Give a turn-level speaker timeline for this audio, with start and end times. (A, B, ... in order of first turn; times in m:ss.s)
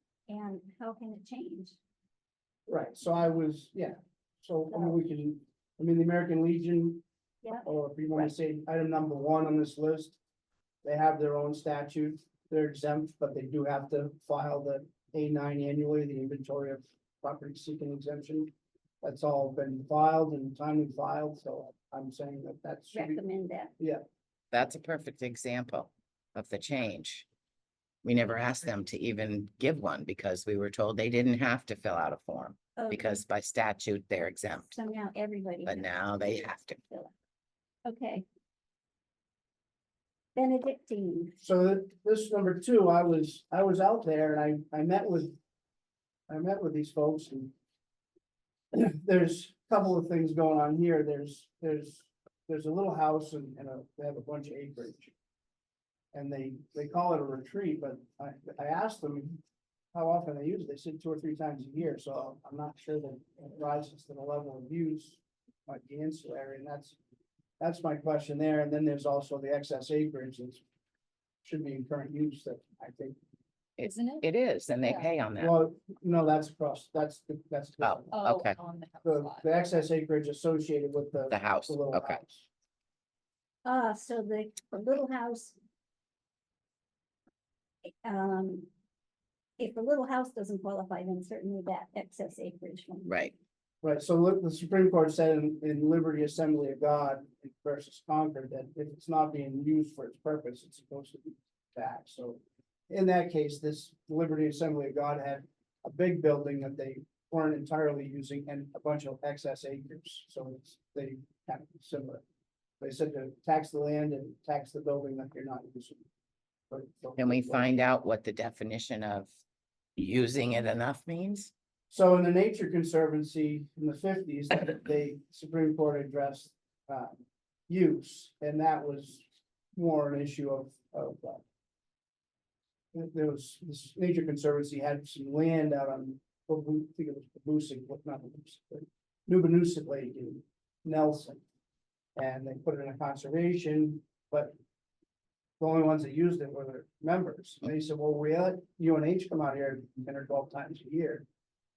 0:00.3-0:01.8 A
0:02.7-0:07.0 B
0:04.7-0:05.0 A
0:07.4-0:08.3 A
0:07.6-0:10.2 B
0:10.8-0:18.5 B
0:19.0-0:23.2 B
0:22.9-0:23.7 A
0:24.5-0:27.3 C
0:28.0-0:34.7 C
0:32.8-0:33.2 A
0:34.7-0:37.1 A
0:35.7-0:36.8 C
0:37.8-0:38.3 A
0:40.4-0:41.4 A
0:41.4-0:45.4 B
0:46.3-0:47.5 B
0:48.7-0:55.1 B
0:56.1-0:59.4 B
0:59.9-1:07.0 B
1:07.6-1:10.6 B
1:11.4-1:13.2 B
1:13.8-1:15.5 C
1:13.8-1:14.3 D
1:14.8-1:15.1 D
1:15.4-1:18.2 B
1:17.8-1:18.6 C
1:18.1-1:19.7 D
1:19.0-1:22.5 B
1:21.3-1:22.2 C
1:23.6-1:25.6 A
1:28.0-1:28.7 A
1:29.6-1:33.2 A
1:33.1-1:33.3 C
1:33.8-1:52.2 B
1:52.8-1:56.0 B
1:56.7-1:57.7 B
1:57.2-1:59.3 C
2:00.0-2:01.5 C
2:01.9-2:09.2 B
2:09.8-2:11.4 B
2:12.9-2:21.4 B
2:22.2-2:24.6 B
2:25.6-2:31.3 B